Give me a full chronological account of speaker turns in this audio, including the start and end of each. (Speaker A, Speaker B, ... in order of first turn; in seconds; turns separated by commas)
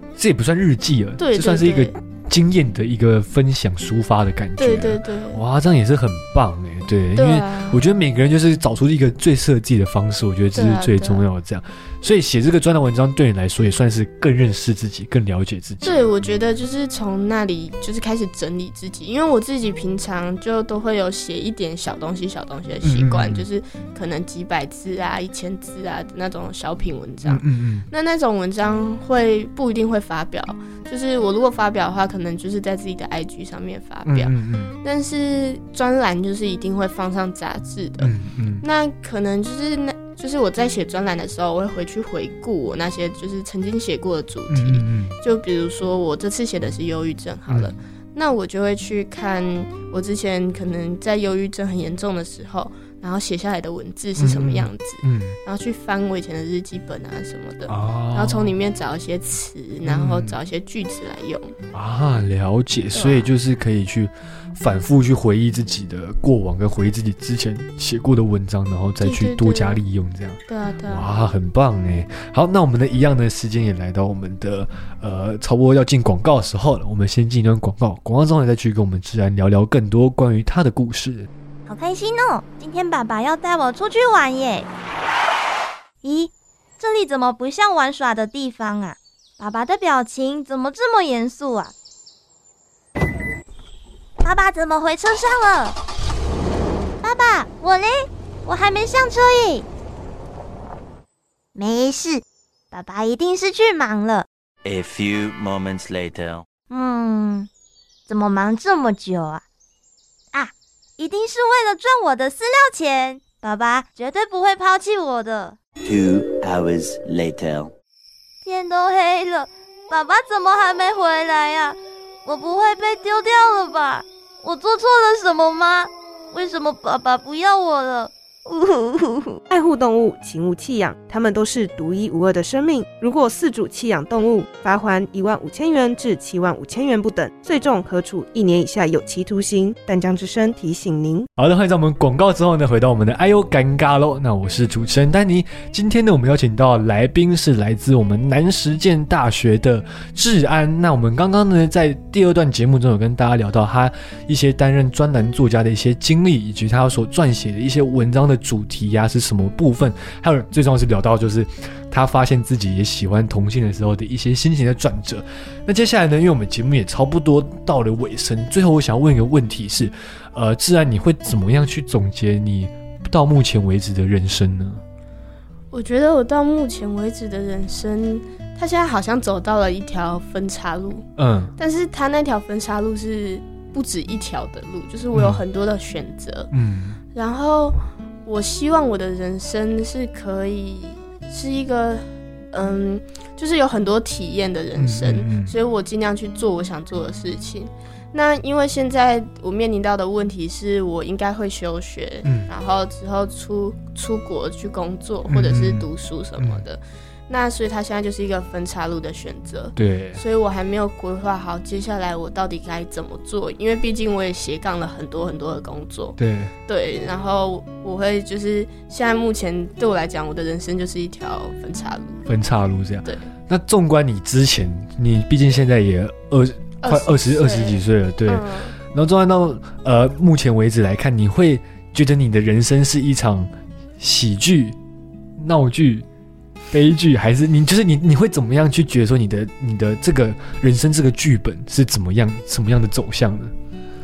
Speaker A: 0.1-16.1, Speaker B: 1.2-1.9, Speaker B: 4.6-5.4, Speaker B: 7.1-7.8, Speaker B: 10.5-11.2, Speaker B: 15.8-61.5, Speaker A: 22.8-23.4, Speaker A: 27.2-27.9, Speaker A: 34.0-34.7, Speaker A: 38.0-38.6, Speaker A: 44.5-45.1, Speaker A: 47.5-47.8, Speaker A: 54.2-55.4, Speaker A: 57.7-58.5, Speaker A: 59.8-60.4, Speaker A: 61.7-81.3, Speaker B: 62.9-63.3, Speaker B: 69.0-69.8, Speaker B: 70.5-71.1, Speaker C: 81.7-84.7, Speaker C: 86.0-91.7, Speaker C: 94.2-95.8, Speaker C: 97.0-99.7, Speaker C: 101.5-104.3, Speaker D: 104.6-106.5, Speaker C: 106.7-107.5, Speaker C: 108.1-109.4, Speaker C: 110.3-115.6, Speaker D: 115.8-117.7, Speaker C: 118.4-129.4, Speaker E: 129.5-141.3, Speaker A: 141.4-174.8, Speaker B: 175.7-186.5, Speaker A: 181.2-181.5, Speaker A: 185.1-185.4, Speaker A: 186.5-187.0, Speaker B: 187.1-216.2, Speaker A: 194.8-195.5, Speaker A: 202.2-202.5, Speaker A: 205.3-205.8, Speaker A: 209.8-210.2, Speaker A: 216.2-216.5, Speaker B: 216.7-222.2, Speaker A: 222.3-234.8, Speaker B: 226.8-228.8, Speaker A: 235.4-236.1, Speaker A: 236.7-243.5